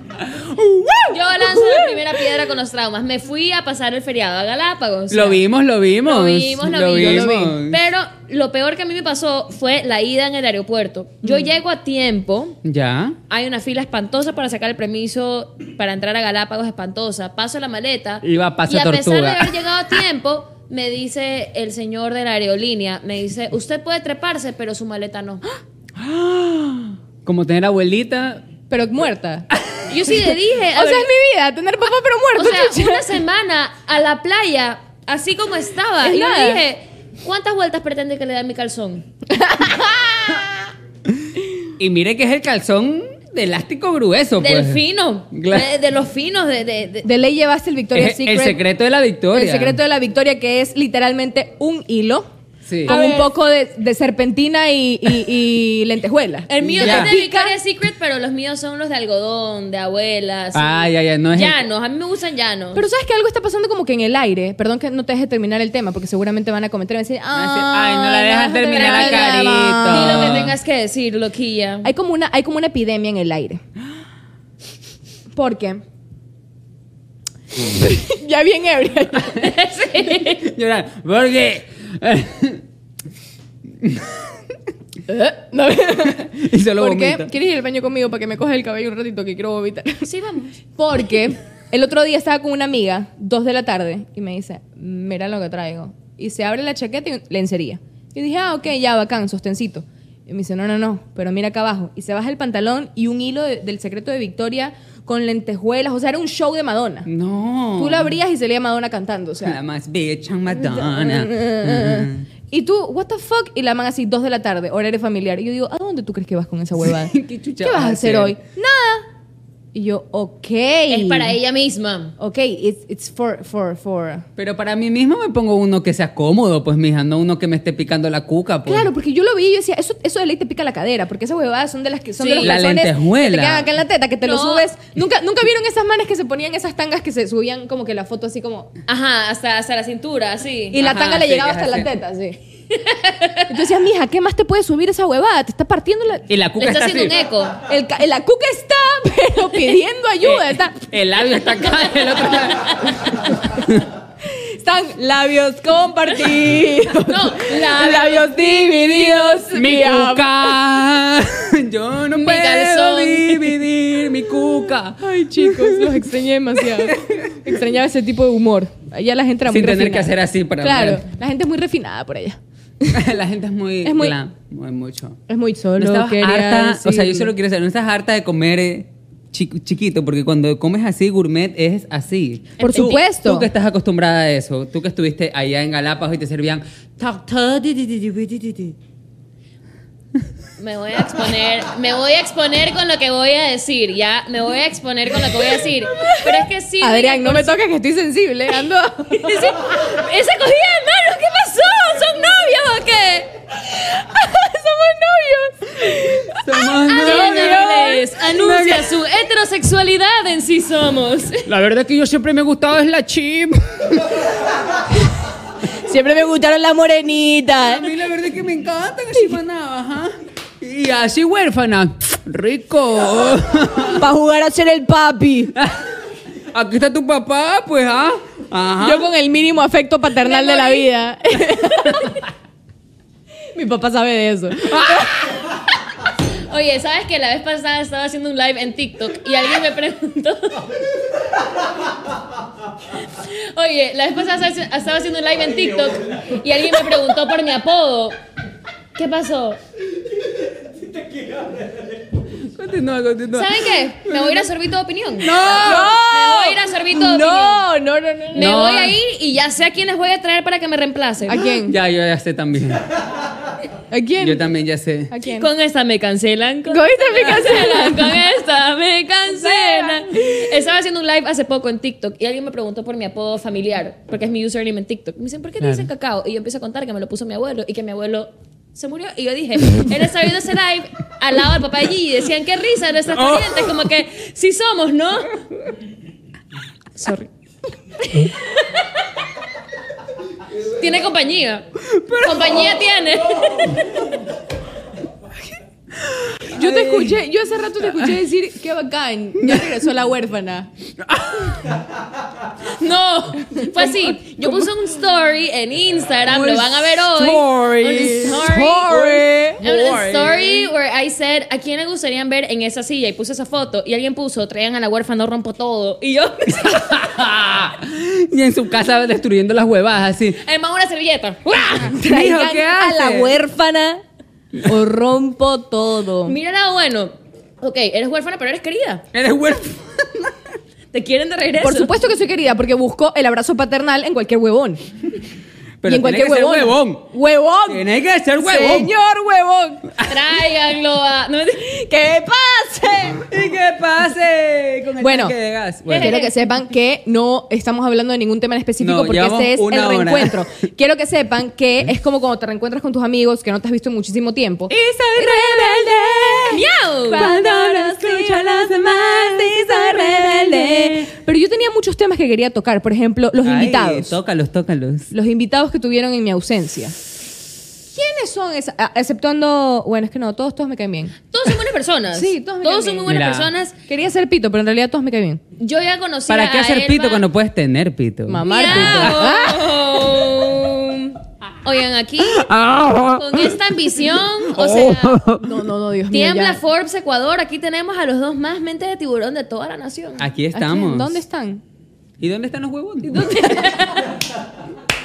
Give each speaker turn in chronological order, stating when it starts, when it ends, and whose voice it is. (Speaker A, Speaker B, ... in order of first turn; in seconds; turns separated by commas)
Speaker A: 0.2-1.1, Speaker B: 1.1-5.4, Speaker C: 1.4-2.2, Speaker A: 5.1-7.8, Speaker B: 6.0-12.6, Speaker C: 6.9-7.6, Speaker A: 12.6-13.2, Speaker B: 13.3-25.4, Speaker A: 18.2-19.5, Speaker C: 26.0-26.9, Speaker A: 27.2-28.4, Speaker C: 28.7-29.4, Speaker B: 29.9-31.1, Speaker C: 30.7-33.1, Speaker B: 32.3-39.0, Speaker C: 36.0-36.6, Speaker C: 39.3-40.5, Speaker A: 41.8-44.8, Speaker B: 44.4-47.1, Speaker A: 45.3-45.7, Speaker C: 47.0-48.6, Speaker A: 47.9-49.8, Speaker C: 49.3-52.3, Speaker A: 52.7-53.0, Speaker C: 52.9-57.5, Speaker B: 52.9-53.3, Speaker B: 56.5-62.8, Speaker A: 56.7-57.1, Speaker A: 60.5-61.6, Speaker C: 62.7-70.5, Speaker A: 67.3-70.6, Speaker B: 68.7-71.9, Speaker C: 71.8-73.6, Speaker C: 75.3-75.8, Speaker C: 77.6-79.4, Speaker B: 79.3-80.4, Speaker A: 80.2-82.6, Speaker A: 83.8-84.3, Speaker C: 85.1-90.1, Speaker A: 86.2-87.3, Speaker B: 90.0-90.5, Speaker C: 90.8-107.1, Speaker A: 107.0-108.1, Speaker C: 107.8-109.6, Speaker A: 109.4-112.2, Speaker C: 110.5-119.0, Speaker A: 116.8-118.4, Speaker C: 119.7-121.3, Speaker B: 120.9-122.1, Speaker C: 122.2-124.2, Speaker A: 124.4-128.9, Speaker C: 128.7-138.7, Speaker B: 132.2-132.6, Speaker A: 132.4-133.7, Speaker B: 134.2-134.7, Speaker B: 138.9-140.8, Speaker C: 140.7-142.4, Speaker A: 140.8-141.9, Speaker B: 142.7-143.5, Speaker C: 143.5-146.2, Speaker A: 146.3-147.2, Speaker B: 146.6-147.6, Speaker C: 147.7-150.8, Speaker A: 150.2-153.8, Speaker B: 152.3-152.9, Speaker C: 154.3-160.6, Speaker B: 157.0-159.2, Speaker A: 159.3-167.3, Speaker B: 162.1-163.6, Speaker C: 165.0-173.0, Speaker A: 169.5-171.0, Speaker A: 172.9-175.2, Speaker C: 173.8-174.2, Speaker C: 175.3-177.3, Speaker A: 175.8-188.8, Speaker B: 182.6-183.0, Speaker C: 182.6-183.5, Speaker B: 190.6-197.6, Speaker C: 196.0-199.5, Speaker B: 199.1-203.3, Speaker C: 203.9-208.2, Speaker A: 206.3-208.9, Speaker B: 206.9-211.4, Speaker A: 211.4-213.9, Speaker C: 215.8-217.9, Speaker A: 217.6-224.0, Speaker C: 223.9-225.5, Speaker A: 225.5-225.8, Speaker A: 226.5-229.1, Speaker C: 228.8-232.2, Speaker B: 230.3-230.8, Speaker C: 233.5-235.1, Speaker A: 234.7-235.1, Speaker B: 236.5-240.6, Speaker B: 243.1-248.2, Speaker B: 248.9-249.6, Speaker A: 252.5-254.4, Speaker B: 253.3-257.6, Speaker A: 255.2-255.9, Speaker C: 255.5-258.7, Speaker B: 258.3-261.4, Speaker A: 258.4-258.9, Speaker C: 261.3-261.8, Speaker A: 261.5-262.8, Speaker C: 263.9-264.4, Speaker A: 264.2-265.1, Speaker C: 265.1-265.5, Speaker B: 265.3-285.4, Speaker C: 266.7-268.2, Speaker C: 269.4-270.4, Speaker A: 275.6-275.9, Speaker A: 283.1-283.9, Speaker B: 287.0-287.3, Speaker B: 288.1-288.9, Speaker B: 290.7-291.6, Speaker A: 291.8-292.8, Speaker B: 292.2-294.1, Speaker A: 296.0-297.2, Speaker C: 296.5-300.7, Speaker A: 297.8-298.2, Speaker A: 299.4-299.7, Speaker A: 301.0-301.8, Speaker B: 302.8-309.0, Speaker C: 303.6-304.7, Speaker A: 306.3-310.7, Speaker C: 306.7-309.6, Speaker B: 309.6-316.9, Speaker A: 316.5-320.4, Speaker B: 320.4-321.8, Speaker A: 321.8-323.4, Speaker C: 321.9-324.0, Speaker C: 324.6-326.4, Speaker B: 326.2-329.0, Speaker A: 329.1-330.3, Speaker B: 330.9-331.9, Speaker C: 331.6-334.8, Speaker A: 335.8-337.1, Speaker C: 335.8-339.9, Speaker A: 337.7-338.9, Speaker B: 340.0-341.8, Speaker C: 341.6-343.2, Speaker A: 343.3-346.2, Speaker C: 345.0-345.3, Speaker B: 345.9-346.5, Speaker C: 345.9-364.2, Speaker A: 348.8-350.4, Speaker A: 354.7-356.6, Speaker B: 356.5-357.3, Speaker A: 357.1-361.1, Speaker A: 363.4-365.1, Speaker C: 365.1-367.0, Speaker C: 367.9-371.1, Speaker B: 371.3-373.7, Speaker C: 372.1-373.0, Speaker A: 373.1-373.5, Speaker C: 373.9-375.4, Speaker B: 375.6-377.2, Speaker A: 376.3-379.3, Speaker C: 378.3-379.8, Speaker B: 378.4-382.5, Speaker A: 382.2-383.4, Speaker B: 383.1-385.2, Speaker A: 384.5-385.5, Speaker C: 385.4-386.6, Speaker B: 386.1-390.2, Speaker A: 390.2-391.2, Speaker C: 390.5-391.6, Speaker A: 392.2-393.3, Speaker C: 393.1-393.8, Speaker B: 393.2-394.1